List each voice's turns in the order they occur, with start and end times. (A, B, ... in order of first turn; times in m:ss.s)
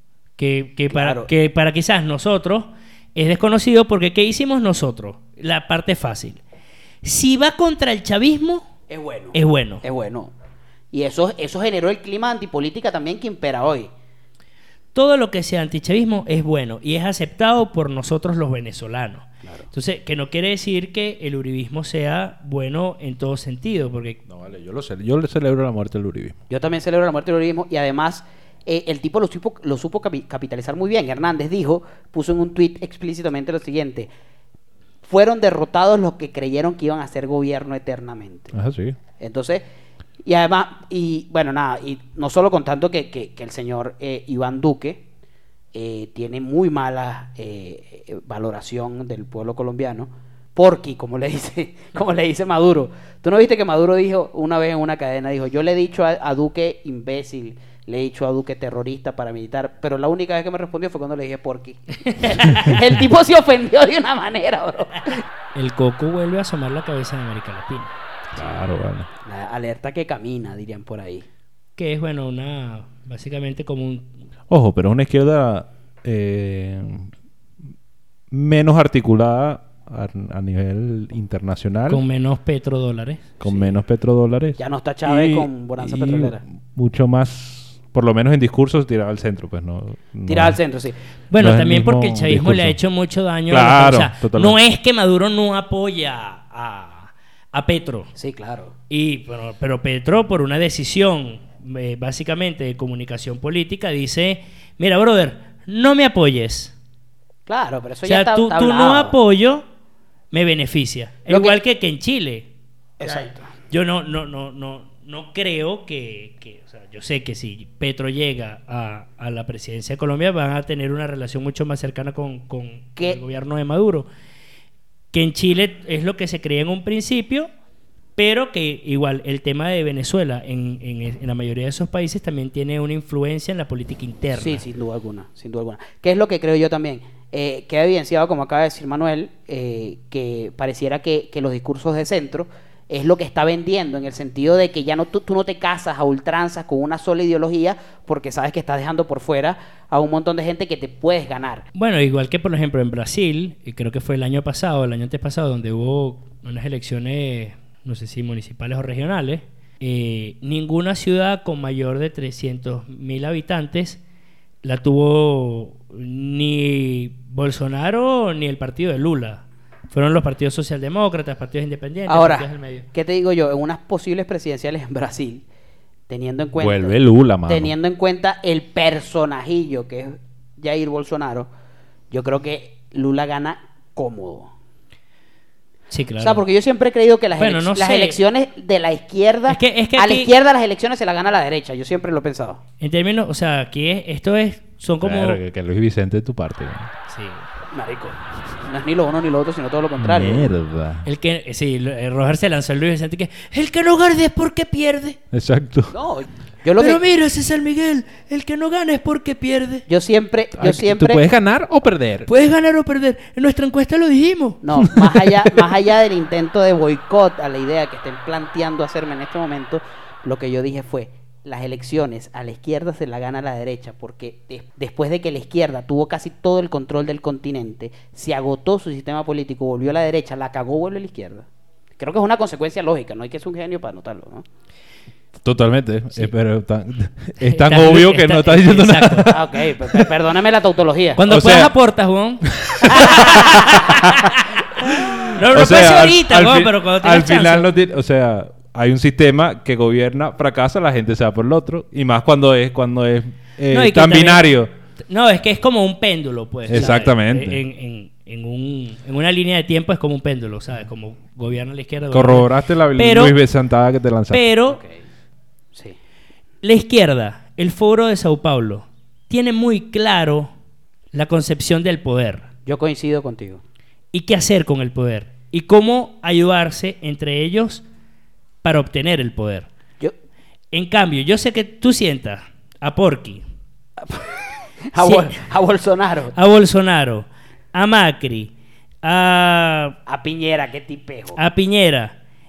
0:00.4-0:06.4 A
0:00.9-0:01.3 B
0:07.0-0:08.7 A
0:08.9-0:10.3 B
0:09.3-0:09.8 A
0:10.9-0:13.9 B
0:14.9-0:24.2 A
0:24.3-0:26.4 C
0:26.5-0:34.1 B
0:35.0-0:38.5 B
0:38.5-0:39.0 C
0:39.2-0:39.6 B
0:40.2-0:45.0 B
0:45.7-1:05.2 B
1:02.4-1:02.7 A
1:05.6-1:07.9 A
1:08.4-1:09.1 C
1:09.2-1:11.2 B
1:11.8-1:14.1 A
1:14.5-1:17.1 C
1:18.3-1:22.0 C
1:21.9-1:23.3 A
1:23.4-1:30.6 C
1:23.4-1:23.7 B
1:24.6-1:26.4 B
1:30.3-1:31.0 B
1:31.3-1:38.1 A
1:31.4-1:32.8 C
1:33.5-1:34.6 C
1:38.2-1:38.7 B
1:38.9-1:46.7 A
1:47.5-1:49.2 B
1:48.0-1:49.6 A
1:50.3-1:52.5 A
1:51.3-1:51.6 B
1:53.0-1:53.5 B
1:53.0-2:04.1 A
2:05.1-2:07.5 A
2:08.2-2:14.6 A
2:14.3-2:31.7 B
2:31.8-2:44.0 A
2:44.6-2:52.8 A
2:52.1-2:55.4 B
2:56.1-3:01.5 B
2:56.6-2:57.7 C
3:02.1-3:04.5 B
3:05.9-3:06.4 A
3:06.2-3:12.6 B
3:07.4-3:08.2 A
3:09.5-3:10.3 A
3:12.8-3:15.4 A
3:15.0-3:16.9 C
3:17.1-3:17.5 A
3:17.7-3:20.6 B
3:20.0-3:21.1 C
3:21.0-3:25.2 A
3:25.3-3:26.0 C
3:25.9-3:27.0 B
3:26.8-3:29.9 A
3:29.9-3:31.2 B
3:30.6-3:32.3 C
3:32.3-3:35.0 A
3:34.6-3:51.4 B
3:52.0-3:54.4 B
3:55.4-4:00.1 C
3:57.4-3:59.3 A
3:59.3-4:01.2 B
4:01.2-4:07.7 A
4:01.3-4:01.7 C
4:02.4-4:14.7 C
4:02.8-4:03.6 B
4:13.7-4:14.4 A
4:15.1-4:23.4 A
4:16.7-4:17.6 C
4:16.7-4:17.0 B
4:22.1-4:24.4 C
4:24.3-4:24.8 A
4:26.6-4:30.5 A
4:31.1-4:32.5 A
4:32.6-4:33.6 B
4:34.1-4:37.8 A
4:38.6-4:39.7 A
4:40.7-4:43.4 A
4:44.0-4:44.4 B
4:44.9-4:46.4 B
4:45.0-4:45.3 A
4:46.4-4:48.5 A
4:49.0-4:50.0 A
4:50.1-4:51.4 B
4:51.4-4:52.2 A